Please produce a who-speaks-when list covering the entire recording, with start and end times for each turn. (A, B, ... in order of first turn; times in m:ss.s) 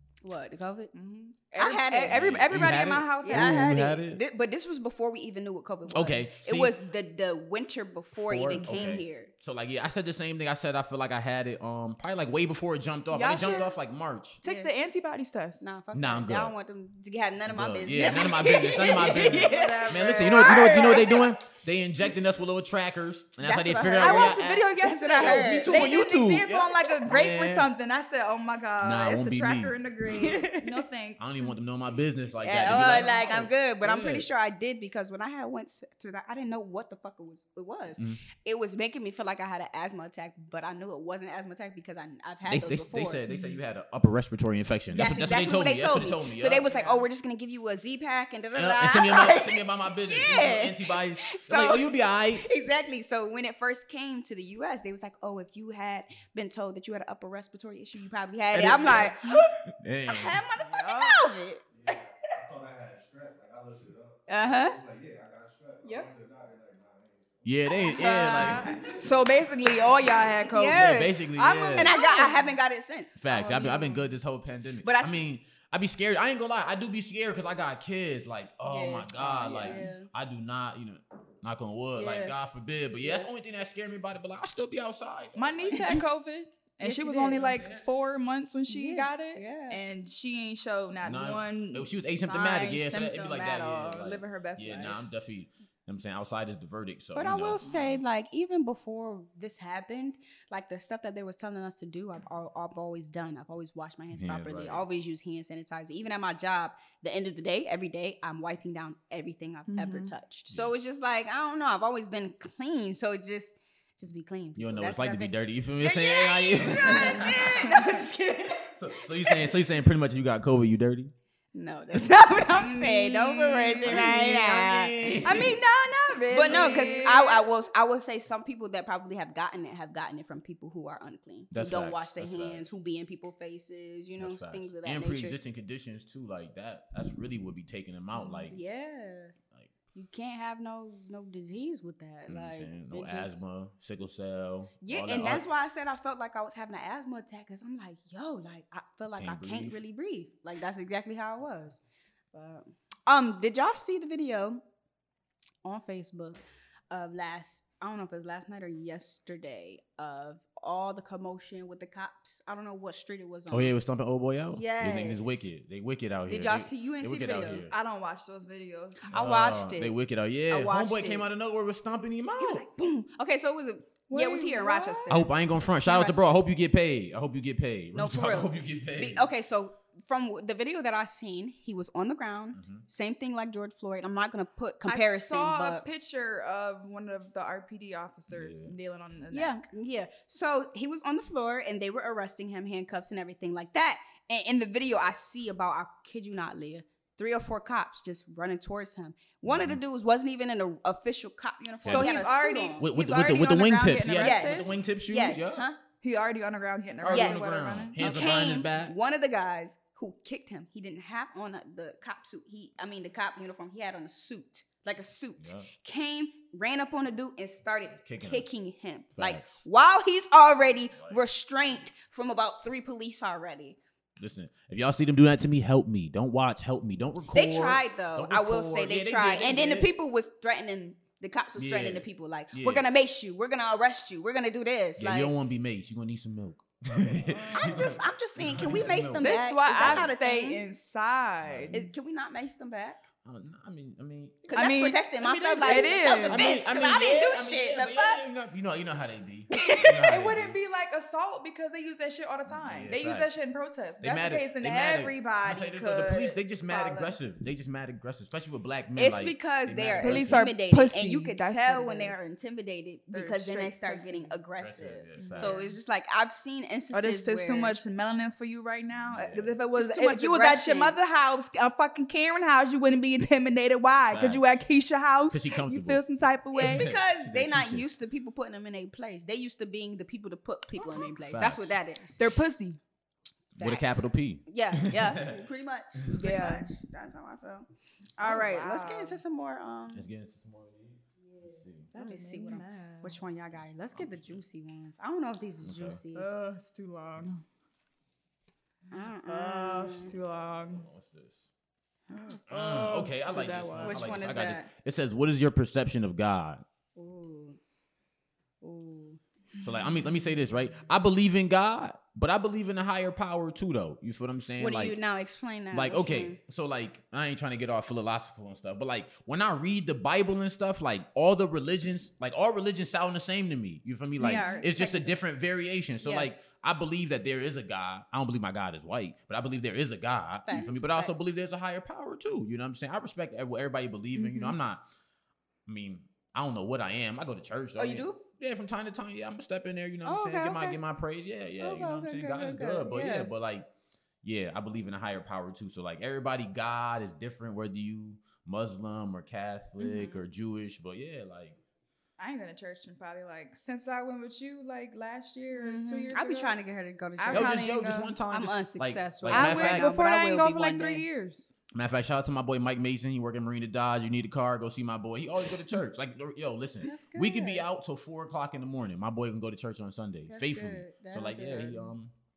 0:00.2-0:00.9 A
0:00.9-0:03.8 B
0:01.5-0:02.3 A
0:02.1-0:04.2 C
0:03.2-0:09.3 A
0:05.9-0:06.8 C
0:08.2-0:14.4 C
0:13.1-0:13.7 B
0:14.4-0:15.6 B
0:14.4-0:14.7 A
0:15.6-0:21.2 A
0:15.9-0:16.5 C
0:17.4-0:27.7 C
0:18.0-0:21.2 B
0:23.4-0:25.7 A
0:24.0-0:31.6 B
0:28.8-0:30.4 C
0:30.2-0:30.8 A
0:31.2-0:34.3 C
0:32.4-0:43.2 A
0:32.6-0:33.3 B
0:38.0-0:38.2 C
0:42.5-0:46.6 C
0:43.3-0:43.6 B
0:44.9-0:59.6 A
0:46.6-0:47.0 B
0:48.5-0:52.4 C
0:58.5-1:00.4 C
1:00.1-1:01.6 A
1:00.6-1:01.3 B
1:01.7-1:07.6 D
1:04.3-1:04.8 A
1:07.4-1:08.7 C
1:07.8-1:12.5 B
1:07.9-1:08.6 A
1:08.4-1:09.4 D
1:10.5-1:11.2 A
1:10.6-1:12.0 C
1:11.7-1:14.0 A
1:13.2-1:26.0 C
1:14.8-1:15.2 A
1:18.6-1:20.1 A
1:19.6-1:19.9 B
1:22.0-1:22.4 A
1:23.0-1:23.3 A
1:25.4-1:35.0 B
1:25.7-1:26.0 A
1:26.8-1:27.7 A
1:28.7-1:29.8 A
1:31.0-1:37.6 C
1:37.1-1:59.6 A
1:37.6-1:37.9 B
1:44.1-1:44.8 C
1:49.7-1:50.1 B
1:54.6-1:57.8 C
1:57.6-1:57.9 B
1:58.6-2:01.1 C
2:01.5-2:05.2 A
2:02.3-2:04.2 B
2:03.8-2:05.6 C
2:05.2-2:07.5 B
2:06.3-2:15.4 A
2:11.5-2:12.7 C
2:14.2-2:18.6 C
2:18.1-2:18.5 B
2:18.5-2:19.3 A
2:19.9-2:23.4 A
2:22.3-2:25.5 C
2:24.8-2:31.8 A
2:29.1-2:29.8 C
2:32.3-2:34.6 A
2:35.6-2:43.7 A
2:43.5-2:47.7 C
2:44.5-2:45.5 A
2:46.3-2:47.7 A
2:47.7-2:49.2 B
2:49.1-2:51.3 A
2:49.1-2:52.6 C
2:52.4-2:56.3 A
2:54.1-2:55.2 B
2:55.1-2:59.3 C
2:57.9-3:05.8 A
3:02.5-3:02.8 C
3:04.8-3:09.6 B
3:08.3-3:08.7 C
3:09.3-3:22.8 A
3:19.4-3:19.8 C
3:21.8-3:22.2 C
3:21.8-3:24.7 B
3:22.8-3:25.6 C
3:24.2-3:25.8 A
3:26.0-3:28.3 B
3:27.0-3:28.9 C
3:27.1-3:43.8 A
3:35.4-3:35.7 C
3:38.0-3:38.4 C
3:39.2-3:39.6 C
3:41.0-3:41.2 C
3:44.2-3:49.9 C
3:47.3-3:55.3 A
3:51.6-3:52.8 C
3:55.0-4:00.1 C
3:57.2-3:58.0 B
3:57.5-4:00.6 A
3:59.2-4:01.9 B
4:01.4-4:01.8 C
4:01.7-4:03.0 A
4:03.2-4:04.5 C
4:04.4-4:08.2 A
4:04.5-4:05.0 B
4:05.2-4:10.6 C
4:05.6-4:06.5 B
4:09.6-4:10.1 A
4:10.0-4:17.2 B
4:12.5-4:13.2 C
4:14.0-4:20.5 C
4:19.0-4:27.8 A
4:20.0-4:22.3 B
4:23.1-4:24.4 B
4:24.6-4:25.6 C
4:25.2-4:25.8 B
4:26.9-4:36.9 B
4:29.0-4:29.5 C
4:29.8-4:31.0 A
4:34.1-4:34.6 C
4:35.3-4:36.0 C
4:36.5-4:42.2 A
4:36.6-4:37.9 C
4:41.2-4:41.7 C
4:42.2-4:42.8 B
4:43.5-4:50.0 A
4:43.6-4:45.4 C
4:46.1-4:46.7 B
4:48.2-4:49.2 B
4:49.9-4:51.9 C
4:51.2-4:56.3 A
4:51.9-4:53.2 B
4:53.9-4:54.4 C
4:55.6-4:56.0 C
4:56.1-4:57.4 B
4:58.9-5:00.1 A
4:58.9-5:00.8 B
5:00.7-5:01.5 C
5:02.1-5:04.2 B
5:02.5-5:06.6 C
5:03.3-5:04.7 A
5:07.0-5:07.6 A
5:08.6-5:09.2 A
5:09.6-5:15.0 C
5:14.6-5:16.4 A
5:15.7-5:34.8 C
5:24.2-5:25.1 A
5:24.2-5:24.6 B
5:26.0-5:26.3 A
5:30.5-5:31.2 A
5:34.2-5:34.5 A
5:35.6-5:43.7 C
5:37.8-5:38.2 A
5:40.0-5:40.8 A
5:41.6-5:43.3 A
5:44.2-5:51.6 C
5:49.8-5:50.2 A
5:52.2-5:56.6 B
5:55.6-5:57.7 A
5:57.2-5:58.2 B
5:57.3-5:59.9 C
5:58.3-6:01.0 A
5:59.3-6:01.5 B
6:01.7-6:12.1 C
6:06.8-6:07.6 A
6:10.3-6:11.9 A